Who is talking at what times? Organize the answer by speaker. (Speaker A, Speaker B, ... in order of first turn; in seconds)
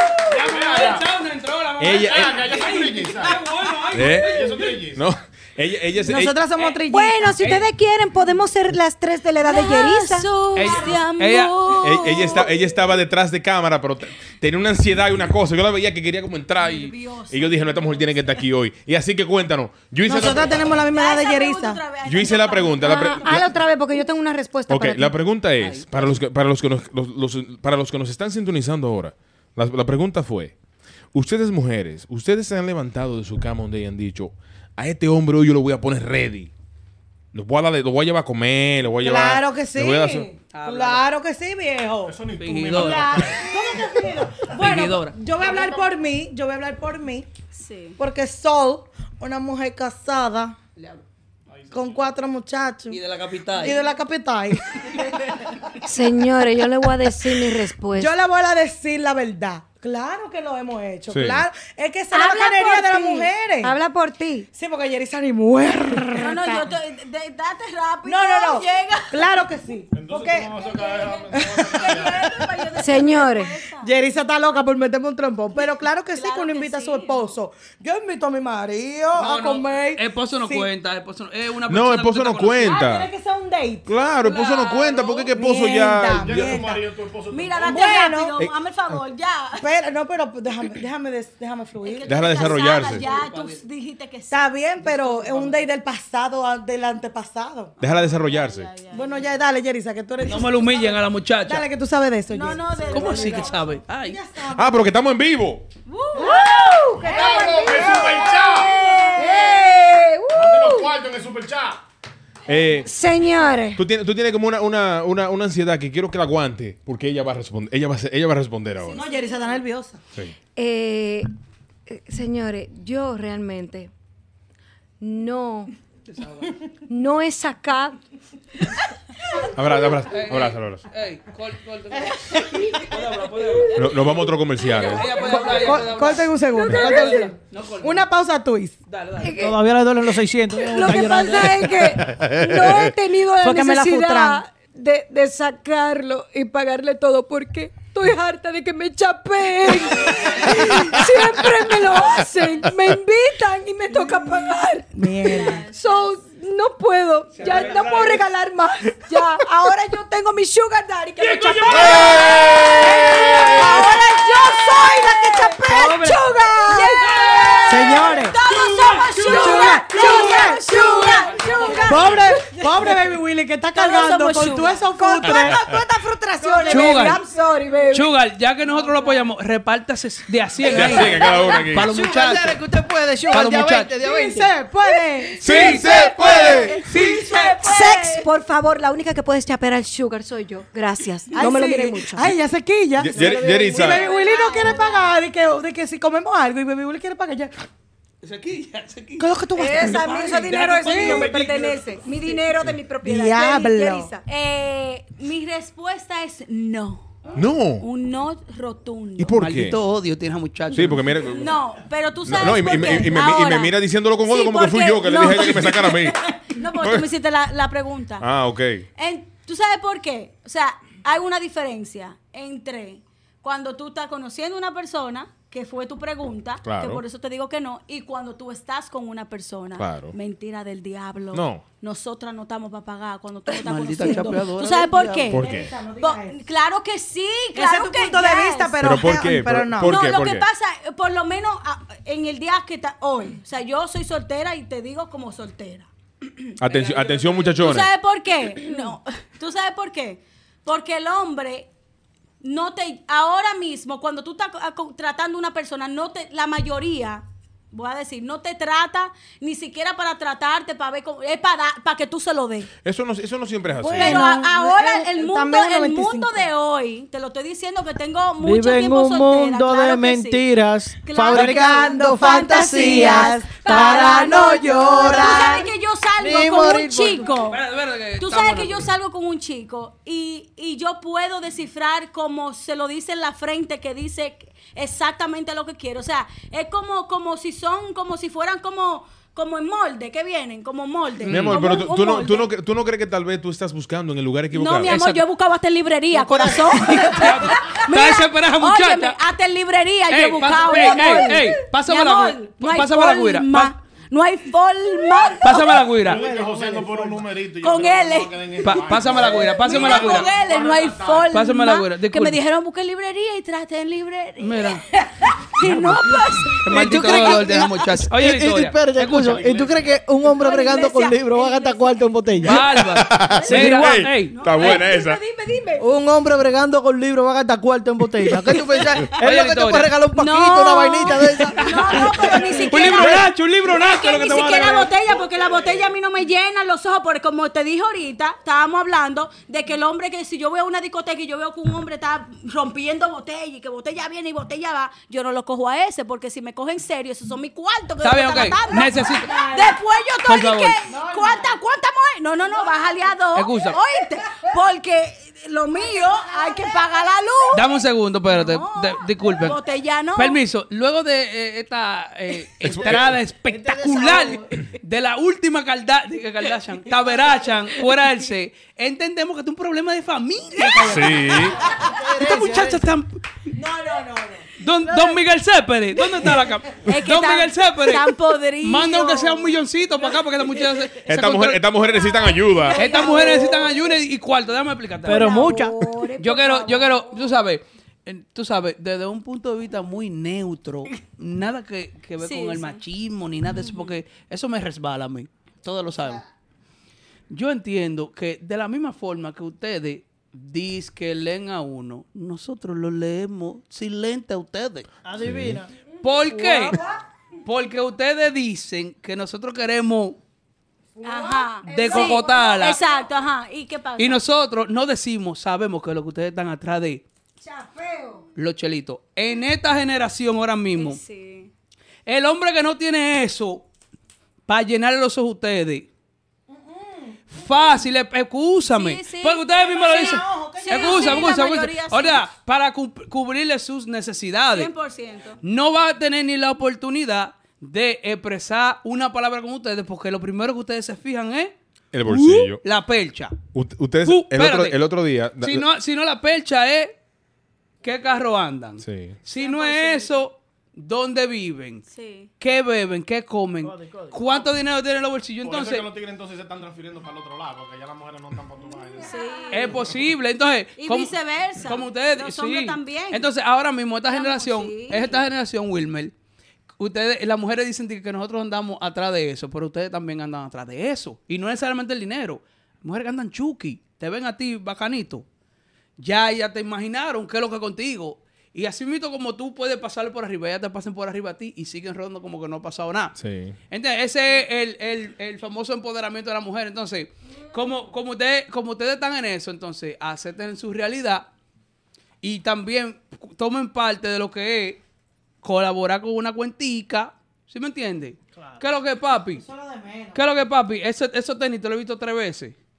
Speaker A: 0.3-4.9, 7.4-7.7, 10.5-11.6, 25.6-26.2, 40.5-41.0, 42.4-43.3, 44.5-45.2, 50.8-51.0, 52.9-53.8, 79.1-82.8, 92.9-93.6, 94.8-95.6, 100.2-101.6, 102.9-104.2, 126.0-126.5, 130.1-138.1, 138.9-139.4, 157.3-158.2, 161.2-162.7, 167.1-167.8, 168.4-169.3, 171.4-172.2, 176.7-177.2, 177.9-182.6, 183.3-183.9, 185.7-186.1, 186.9-187.5, 198.2-201.8, 209.4-211.2, 233.5-235.3, 246.7-247.6, 277.3-278.9, 291.2-291.6, 294.8-295.2, 296.9-299.2, 300.1-303.7, 305.4-306.2, 308.6-310.3, 311.3-312.4, 314.4-314.8, 316.6-319.7, 322.4-324.8, 329.2-329.9, 331.6-334.9, 348.0-349.4, 350.2-350.8, 353.3-353.8, 357.5-359.6, 360.1-373.5, 374.6-381.7, 382.7-385.5, 386.2-396.2, 397.3-404.9, 406.0-406.8, 407.4-410.2, 411.6-412.8, 414.0-417.0, 418.4-421.0, 422.1-423.6, 424.5-425.9, 427.3-434.7, 435.4-441.5, 442.1-443.4, 444.0-444.8, 445.4-446.9, 447.8-451.8, 452.4-455.9, 459.5-466.1, 466.8-475.2, 476.0-483.2, 483.7-491.3, 492.2-494.8, 495.4-499.4, 500.1-502.5
Speaker B: 0.5-1.1, 2.0-3.4, 4.0-5.0, 42.0-43.9, 45.4-45.8, 51.5-52.1, 69.9-72.4, 86.2-87.8, 107.1-108.8, 110.3-111.8, 306.0-311.3, 455.4-459.4
Speaker C: 1.8-2.4, 3.9-4.3, 4.9-6.3, 11.8-20.6, 22.0-23.5, 24.7-30.5, 31.1-36.5, 37.3-40.3, 61.1-61.4, 81.7-83.1, 83.8-86.6, 88.4-88.9, 92.0-93.1, 97.8-98.7, 104.5-105.7, 112.5-112.9, 113.8-119.0, 129.5-130.8, 133.7-135.2, 142.2-142.4, 161.8-163.5, 180.7-181.9, 185.4-186.8, 193.0-194.0, 207.3-207.9, 209.2-209.8, 210.7-211.5, 212.2-216.2, 216.8-217.1, 218.2-218.8, 226.6-227.0, 229.8-230.1, 231.3-231.6, 235.3-235.7, 238.8-240.4, 246.6-247.9, 262.8-264.3, 291.3-294.9, 322.9-325.2, 362.6-363.1, 370.9-371.6, 381.0-382.9, 405.2-405.6, 441.9-442.6, 443.5-445.6, 448.8-449.2, 483.2-483.6
Speaker D: 6.0-7.3, 20.1-21.8, 39.0-42.2, 42.7-47.3, 48.0-50.5, 51.7-53.0, 53.6-55.5, 58.0-63.8, 64.5-66.7, 68.0-70.5, 71.3-72.4, 73.8-80.7, 82.6-83.9, 85.3-86.8, 87.6-88.4, 89.6-92.5, 94.3-97.8, 98.9-104.7, 106.1-108.7, 118.9-120.0, 135.0-138.8, 143.4-144.4, 154.9-155.6, 165.7-166.2, 167.7-168.3, 169.2-170.7, 171.8-175.8, 176.4-177.2, 184.0-185.7, 186.9-187.2, 191.3-197.5, 199.2-200.3, 203.0-204.1, 235.3-236.4, 237.5-240.0, 263.8-266.5, 271.3-275.7, 349.2-349.7, 350.9-351.6, 352.5-353.1, 356.0-356.9, 373.6-374.4, 426.5-427.2, 429.5-431.3, 499.4-500.2
Speaker E: 6.9-10.3, 22.8-25.1, 55.8-58.1, 62.1-64.5, 72.8-73.6, 106.2-108.6, 109.1-110.9, 112.8-113.8, 120.5-121.3, 121.9-123.9, 125.0-125.7, 126.9-128.0, 136.6-137.2, 139.2-139.6, 140.5-167.9, 168.7-172.4, 175.0-178.1, 186.9-192.3, 199.6-204.2, 382.9-383.7, 385.1-387.1, 411.0-413.0, 417.4-418.2
Speaker F: 9.4-12.5, 16.6-18.4, 20.9-23.5, 47.5-48.0, 66.2-69.3, 70.5-73.9, 76.1-77.3, 84.2-85.3, 87.3-89.7, 91.8-94.5, 97.8-99.2, 102.3-103.8, 105.9-109.7, 118.9-119.5, 155.3-155.8, 162.8-165.6, 166.7-172.9, 173.7-174.8, 180.7-181.7, 185.5-188.3, 193.1-195.1, 200.9-201.3, 202.0-202.7, 204.1-207.2, 207.8-209.4, 210.8-218.3, 219.0-238.8, 239.8-245.9, 247.6-251.7, 252.4-262.7, 263.9-270.5, 271.0-277.6, 278.2-292.5, 294.5-306.0, 307.5-317.8, 320.0-322.8, 323.3-325.9, 328.3-329.1, 330.1-360.4, 376.7-379.6, 381.9-383.8, 392.2-392.8, 411.0-414.2, 420.8-421.5, 428.7-432.3, 434.5-435.4, 449.4-450.1, 451.9-452.3, 459.0-459.8, 460.8-463.3, 464.1-465.2
Speaker G: 139.3-141.7, 181.8-184.5, 268.4-274.3, 274.9-275.6, 276.2-277.3, 296.1-297.1, 306.1-307.2, 316.7-322.6, 323.5-323.9, 325.8-333.3, 362.9-364.5, 371.8-372.9, 385.0-385.9, 405.0-405.7, 453.6-454.1